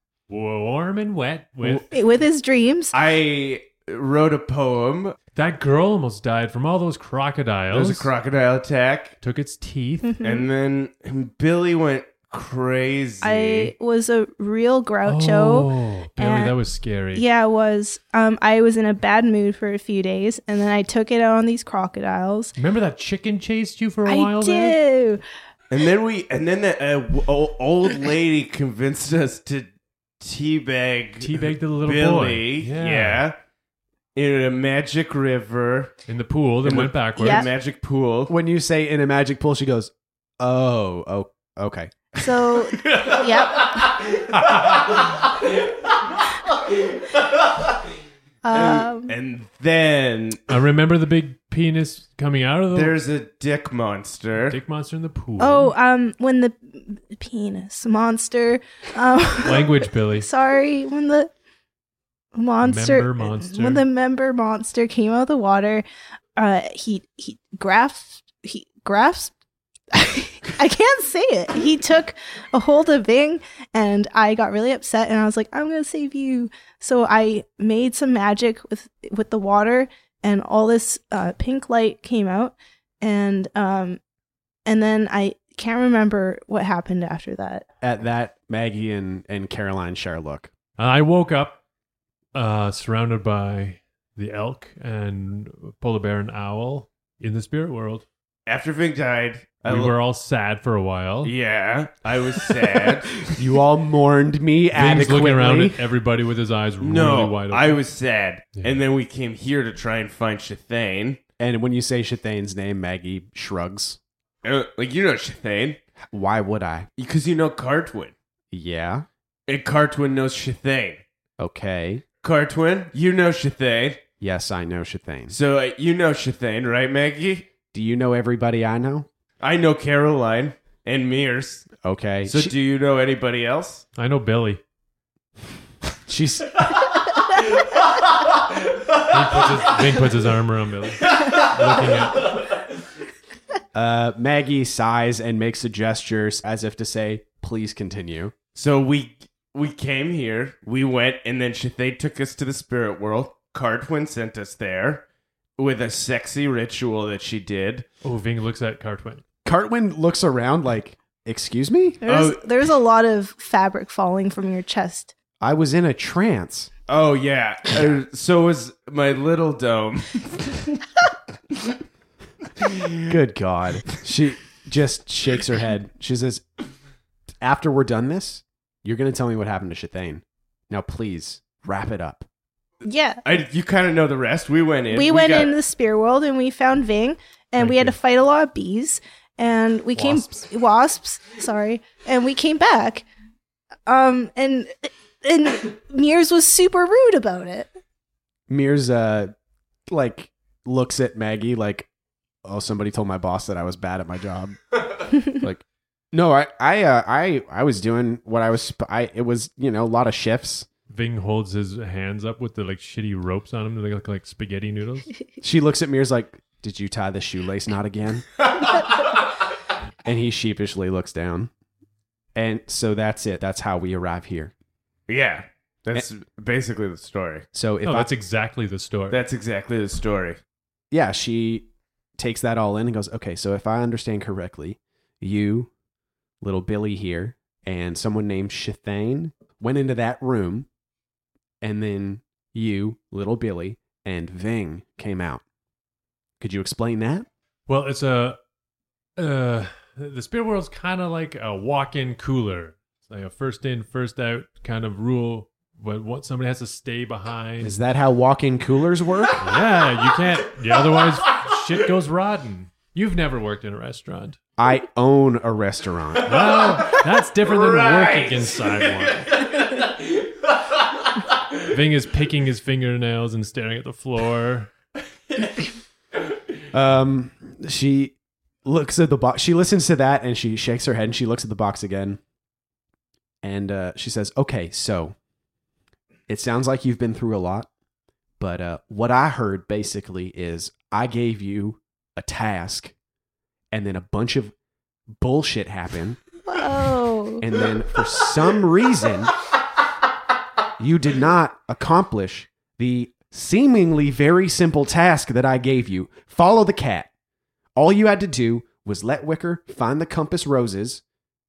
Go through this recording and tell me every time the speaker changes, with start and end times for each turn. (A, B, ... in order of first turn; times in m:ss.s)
0:00.3-0:01.9 A
0:01.9-0:02.9 B
0:02.9-0:05.2 C
0:05.3-0:08.1 A
0:07.7-0:09.2 C
0:09.2-0:10.1 A
0:10.0-0:10.4 B
0:10.2-0:13.7 C
0:13.2-0:16.6 B
0:15.0-0:17.2 A
0:17.1-0:22.5 B
0:22.6-0:24.8 A
0:24.0-0:25.2 B
0:25.7-0:29.7 C
0:30.2-0:33.4 C
0:31.2-0:33.2 A
0:34.1-0:35.9 C
0:36.1-0:37.5 A
0:36.6-0:38.3 C
0:37.2-0:37.5 B
0:38.3-0:41.9 D
0:42.2-0:44.2 B
0:48.4-0:49.1 B
0:48.5-0:50.5 C
0:50.5-0:52.9 A
0:52.7-0:54.6 C
0:54.5-0:55.7 A
0:55.4-1:01.3 B
0:59.4-1:00.3 A
1:02.3-1:05.8 B
1:02.6-1:03.8 A
1:06.4-1:09.3 B
1:09.9-1:24.0 B
1:24.6-1:27.6 B
1:27.8-1:30.5 D
1:30.8-1:31.6 A
1:32.3-1:38.0 A
1:38.4-1:40.0 C
1:39.6-1:41.3 A
1:41.2-1:43.2 C
1:43.3-1:45.8 D
1:44.7-1:47.8 A
1:46.8-1:51.2 C
1:51.4-1:54.0 D
1:54.4-1:55.8 C
1:56.1-1:56.9 D
1:57.0-1:58.1 C
1:58.5-1:59.1 D
1:59.5-2:01.0 C
2:01.4-2:02.0 D
2:02.2-2:04.0 C
2:04.2-2:05.4 D
2:05.3-2:07.5 C
2:07.7-2:09.1 D
2:09.4-2:11.7 C
2:11.8-2:12.5 D
2:12.2-2:13.8 C
2:14.0-2:14.6 A
2:16.1-2:16.8 D
2:19.0-2:22.4 A
2:23.7-2:28.3 D
2:28.5-2:35.0 C
2:35.6-2:37.8 C
2:38.0-2:39.2 A
2:39.4-2:42.0 D
2:42.0-2:45.1 B
2:42.0-2:42.4 C
2:45.4-2:46.7 D
2:46.9-2:50.7 C
2:52.6-2:53.0 C
2:53.0-2:56.4 D
2:57.4-3:02.2 D
3:02.8-3:03.2 B
3:03.2-3:05.5 C
3:04.9-3:13.0 B
3:07.6-3:08.0 A
3:10.0-3:10.3 A
3:13.9-3:17.7 B
3:18.5-3:19.3 D
3:19.9-3:21.9 D
3:22.4-3:30.7 D
3:30.9-3:35.1 A
3:35.4-3:38.2 D
3:40.0-3:41.5 D
3:42.3-3:44.5 D
3:45.1-3:47.5 C
3:47.5-3:48.1 D
3:47.8-3:49.2 A
3:49.1-3:50.4 C
3:50.9-3:51.7 D
3:52.2-3:55.7 D
3:56.4-4:00.7 D
4:01.6-4:05.4 D
4:06.4-4:07.3 D
4:07.7-4:08.4 A
4:09.2-4:17.8 A
4:17.6-4:19.5 D
4:19.4-4:24.4 A
4:24.6-4:26.6 D
4:26.2-4:29.4 A
4:26.8-4:30.2 C
4:31.6-4:34.7 A
4:36.7-4:42.2 D
4:43.4-4:45.1 D
4:46.3-4:47.7 D
4:48.4-4:52.9 D
4:53.7-4:54.5 D
4:55.2-4:56.2 D
4:56.4-4:57.4 B
4:57.4-4:59.3 D
5:00.8-5:07.1 D
5:07.8-5:11.0 D